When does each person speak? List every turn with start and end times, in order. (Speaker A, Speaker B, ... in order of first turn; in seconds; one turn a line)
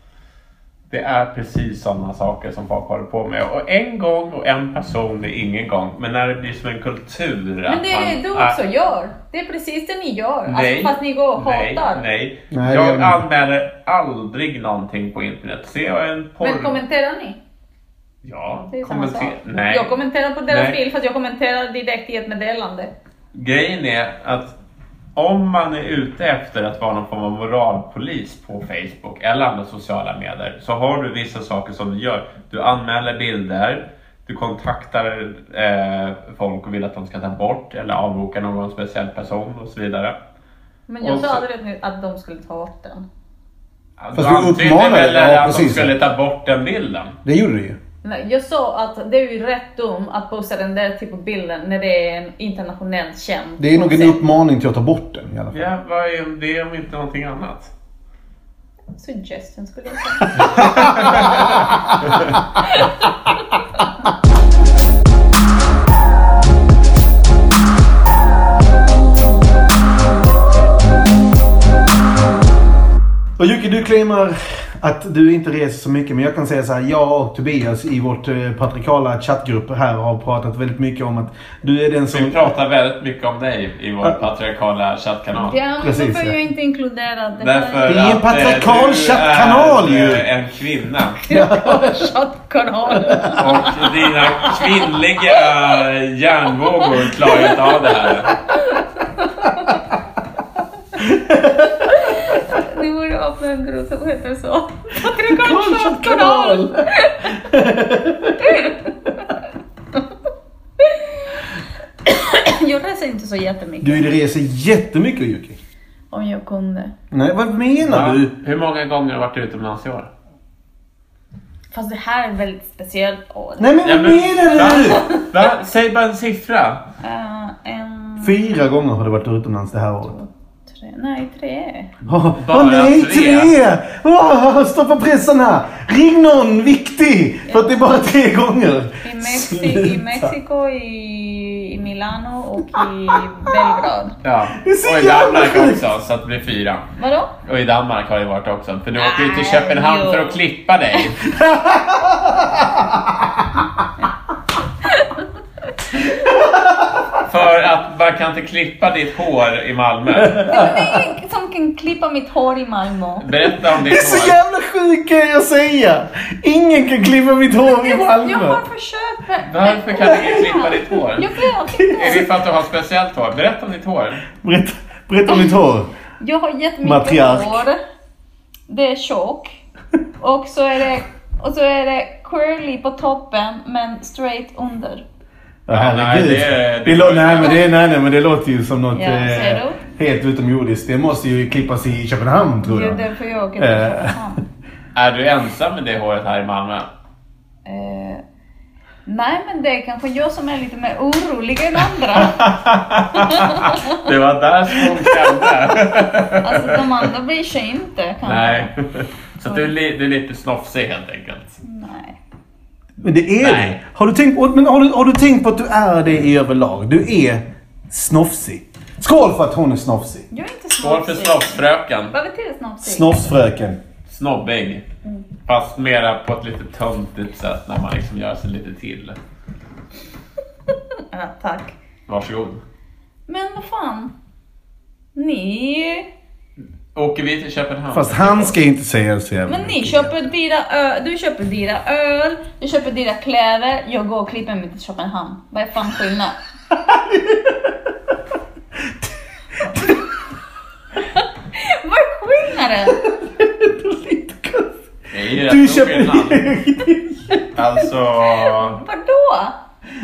Speaker A: 0.9-8.6
Speaker B: 7.7-12.0
Speaker A: 10.5-16.8
Speaker C: 12.5-13.2
Speaker B: 16.4-17.4
Speaker A: 18.2-19.9
Speaker B: 18.7-22.9
Speaker A: 20.5-20.8
Speaker A: 23.3-24.5
Speaker A: 25.1-40.1
Speaker B: 40.9-43.0
Speaker A: 41.0-41.4
Speaker A: 44.0-47.2
Speaker C: 44.1-45.9
Speaker C: 47.2-47.8
Speaker B: 48.0-54.2
Speaker C: 53.6-55.6
Speaker A: 55.5-57.7
Speaker B: 58.9-61.6
Speaker C: 60.4-62.0
Speaker A: 60.5-62.3
Speaker B: 62.6-63.1
Speaker C: 73.4-82.5
Speaker A: 82.1-85.6
Speaker B: 85.4-88.0
Speaker C: 85.8-86.3
Speaker A: 87.4-91.2
Speaker C: 87.8-90.2
Speaker B: 91.2-95.5
Speaker C: 91.3-92.1
Speaker C: 93.1-93.4
Speaker A: 93.4-98.4
Speaker B: 96.6-99.8
Speaker C: 101.0-101.9
Speaker B: 101.8-107.3
Speaker C: 105.1-108.7
Speaker B: 108.4-109.3
Speaker B: 110.8-111.4
Speaker B: 112.0-114.0
Speaker C: 113.8-115.6
Speaker B: 116.1-116.9
Speaker C: 117.1-118.3
Speaker A: 117.8-120.1
Speaker B: 121.7-123.8
Speaker C: 123.6-125.0
Speaker A: 123.8-126.8
Speaker B: 124.7-125.3
Speaker B: 127.0-128.4
Speaker C: 128.2-130.2
Speaker B: 130.1-131.9
Speaker C: 132.0-140.3
Speaker A: 132.4-133.6
Speaker B: 137.4-137.9
Speaker B: 139.0-144.1
Speaker A: 144.2-146.9
Speaker C: 144.6-145.8
Speaker B: 147.0-147.3
Speaker A: 147.4-151.3
Speaker B: 149.0-150.4
Speaker C: 151.3-153.7
Speaker C: 156.1-157.0
Speaker A: 157.2-160.4
Speaker C: 160.2-161.0
Speaker B: 160.4-163.3
Speaker A: 163.2-164.4
Speaker C: 163.8-168.6
Speaker B: 167.6-172.3
Speaker A: 169.5-171.3
Speaker C: 171.8-172.2
Speaker A: 171.9-174.2
Speaker C: 174.4-175.9
Speaker B: 176.2-177.8
Speaker C: 176.8-177.6
Speaker B: 178.7-179.5
Speaker B: 180.2-185.0
Speaker C: 185.7-193.0
Speaker A: 185.7-187.7
Speaker B: 188.9-189.8
Speaker B: 192.6-194.4
Speaker C: 193.6-194.1
Speaker A: 194.9-196.9
Speaker B: 197.7-198.2
Speaker B: 199.1-202.4
Speaker A: 202.2-207.1
Speaker B: 203.1-204.0
Speaker B: 206.4-208.7
Speaker A: 208.2-211.6
Speaker B: 211.6-212.2
Speaker C: 213.0-220.2
Speaker A: 213.4-213.8
Speaker B: 220.3-221.6
Speaker A: 220.8-222.1
Speaker B: 222.1-223.2
Speaker C: 222.8-223.8
Speaker A: 224.1-224.8
Speaker A: 225.4-229.2
Speaker B: 231.1-231.7
Speaker A: 232.1-232.6
Speaker B: 233.3-234.1
Speaker B: 235.1-236.1
Speaker A: 236.9-238.6
Speaker C: 237.9-240.1
Speaker B: 239.5-246.3
Speaker C: 246.7-247.9
Speaker C: 249.6-250.0
Speaker B: 251.1-253.0
Speaker C: 253.0-254.8
Speaker A: 255.1-256.4
Speaker C: 255.4-257.4
Speaker A: 257.6-258.8
Speaker B: 258.4-259.6